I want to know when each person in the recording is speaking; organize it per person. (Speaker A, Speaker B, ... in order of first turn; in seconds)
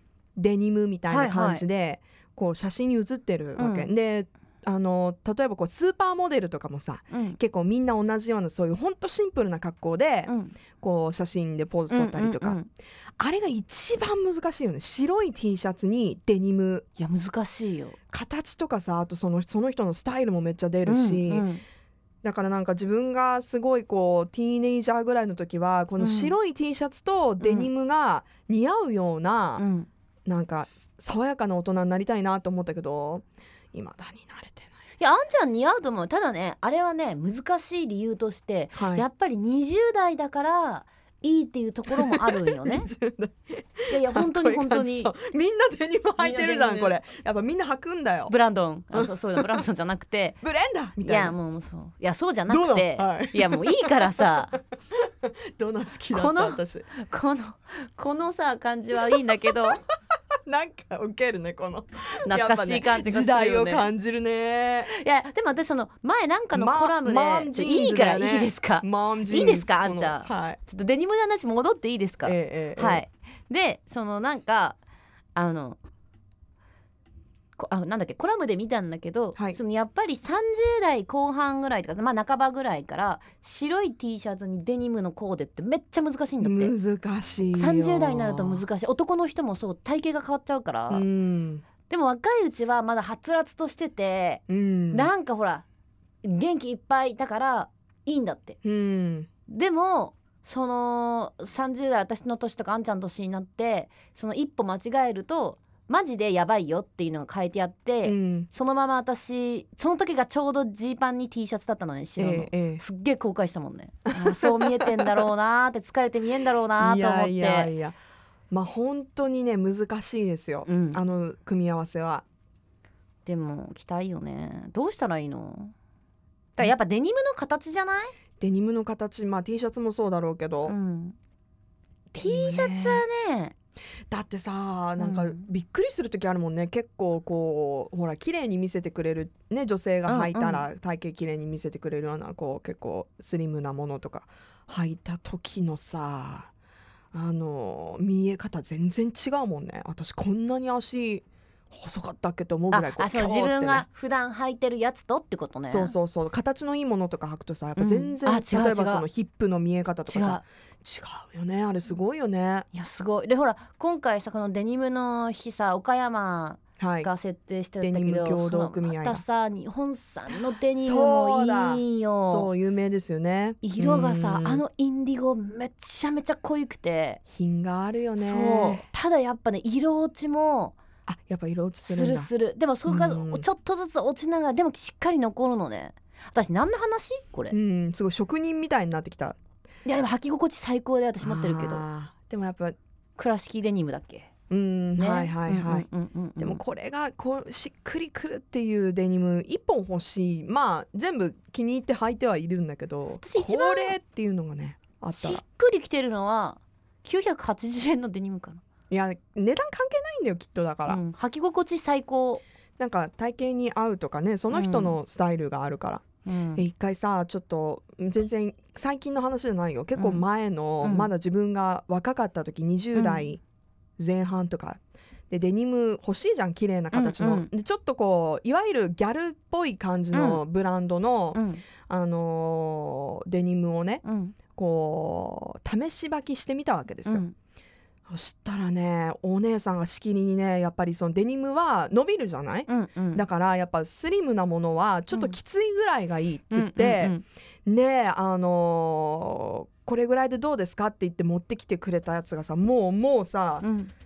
Speaker A: 0.3-12.6, 13.2-16.9, 18.1-21.5, 22.2-29.6, 30.2-34.7, 38.8-39.0, 41.9-48.3, 48.9-49.6, 50.4-51.4, 52.5-54.3, 55.0-56.9, 59.2-59.8, 60.5-64.9, 66.5-70.6, 72.2-73.0, 86.4-88.6, 90.9-91.6, 94.5-95.1, 98.6-99.3, 108.0-108.5, 112.2-112.8, 114.1-115.3, 116.8-118.0, 118.5-122.2, 128.4-130.8, 132.2-133.0, 134.1-146.5, 147.1-153.8, 155.7-162.7, 166.8-167.1, 167.8-169.2, 170.3-174.6, 177.3-178.9, 181.1-182.3, 182.9-183.4, 187.5-189.4, 191.2-192.8, 194.5-195.9, 196.4-205.4, 208.9-211.0, 212.8-223.4, 224.0-224.8, 225.3-237.2, 238.1-253.7
Speaker B: 1.1-1.6, 3.6-3.9, 7.1-7.4, 10.3-10.6, 11.9-12.7, 17.0-18.0, 20.9-21.6, 26.0-26.3, 27.4-27.7, 29.6-29.9, 35.0-42.9, 43.9-45.1, 46.2-47.0, 48.3-50.4, 51.0-54.6, 56.1-59.8, 62.2-63.9, 64.9-74.8, 75.3-75.8, 77.6-86.7, 87.5-91.0, 91.9-95.6, 96.2-98.6, 99.5-117.7, 120.7-121.0, 123.2-125.7, 126.5-128.1, 130.7-131.2, 132.1-133.5, 135.0-135.4, 140.1-140.7, 152.7-155.9, 157.8-159.1, 160.1-160.4, 162.7-172.5, 173.6-177.2, 178.2-180.8, 181.8-187.5, 189.8-191.8, 193.2-194.3, 195.0-196.6, 203.2-203.9, 205.1-208.6, 210.9-212.4, 214.5-215.0, 216.2-216.7, 219.9-220.2, 220.8-221.1, 222.9-223.3, 226.9-227.5, 230.1-230.4, 231.3-231.6, 234.0-234.3, 237.1-237.3, 242.7-243.2, 246.5-247.2, 253.6-253.9